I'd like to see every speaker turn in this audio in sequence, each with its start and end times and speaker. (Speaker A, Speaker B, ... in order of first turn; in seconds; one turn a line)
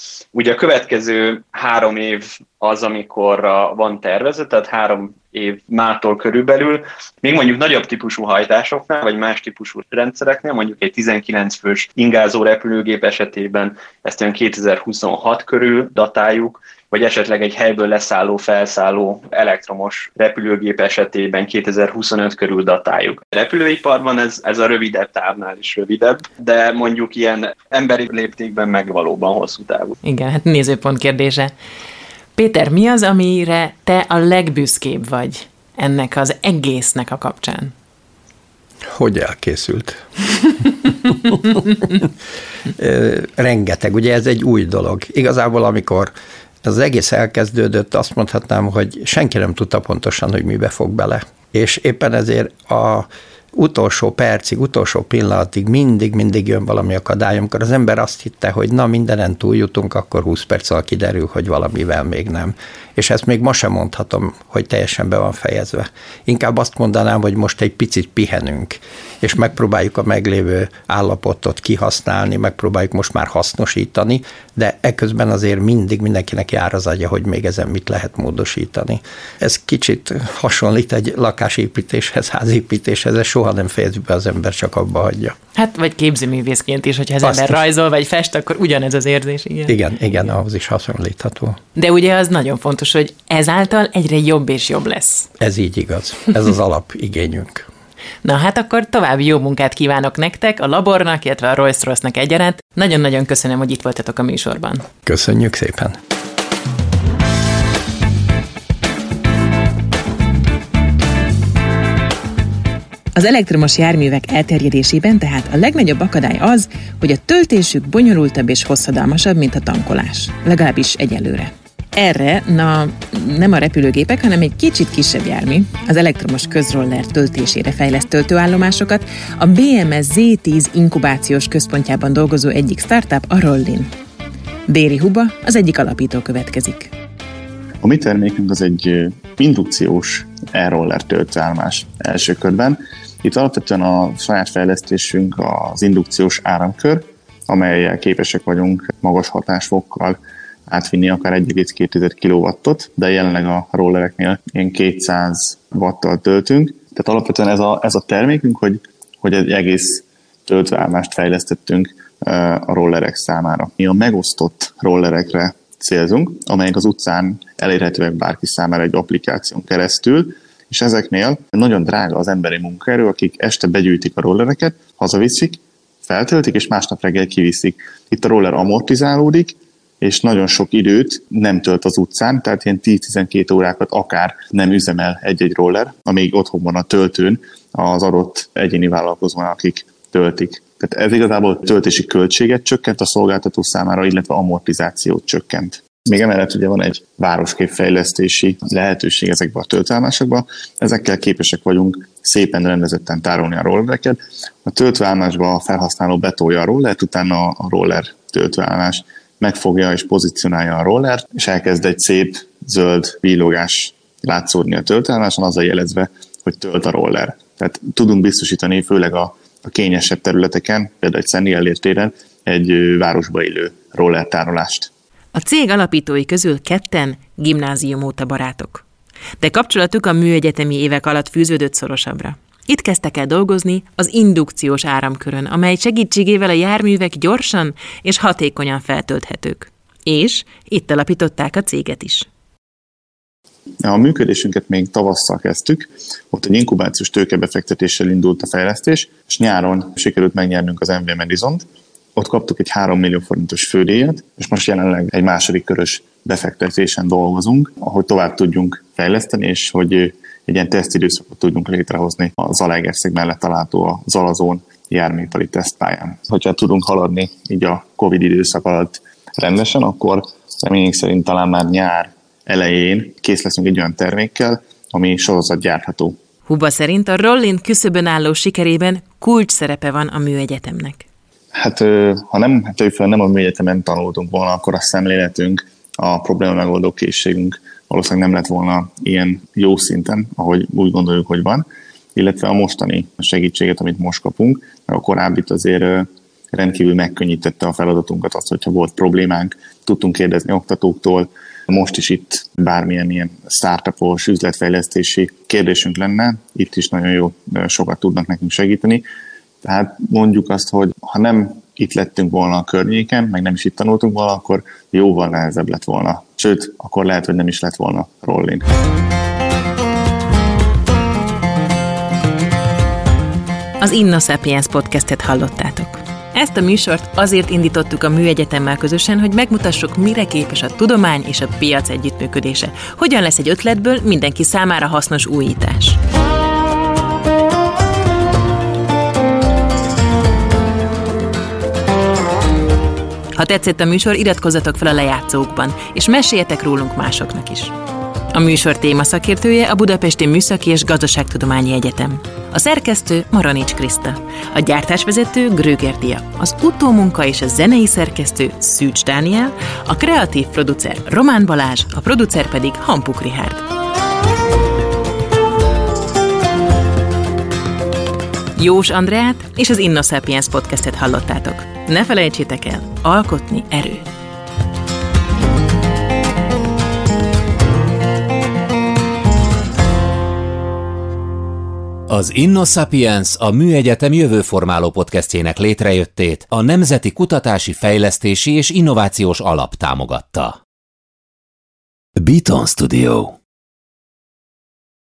Speaker A: 0.3-30.0
Speaker B: 30.0-31.5
Speaker B: 32.4-37.7
Speaker C: 38.9-40.1
Speaker C: 40.9-42.1
Speaker C: 42.7-46.1
Speaker C: 46.6-85.4
Speaker B: 85.6-89.8
Speaker C: 87.2-87.6
Speaker C: 89.7-91.6
Speaker B: 91.8-95.3
Speaker C: 95.4-97.7
Speaker B: 98.2-104.9
Speaker C: 105.1-106.0
Speaker B: 113.2-133.9
Speaker B: 134.7-136.9
Speaker D: 137.8-224.9
Speaker B: 225.3-228.8
Speaker B: 229.4-242.3
Speaker D: 243.8-276.2
Speaker B: 276.5-281.1
Speaker D: 281.5-309.1
Speaker D: 309.6-318.7
Speaker B: 323.8-336.0
Speaker B: 343.4-347.7
Speaker B: 348.3-363.6
Speaker B: 368.6-374.1
Speaker E: 382.1-390.6
Speaker E: 392.2-393.4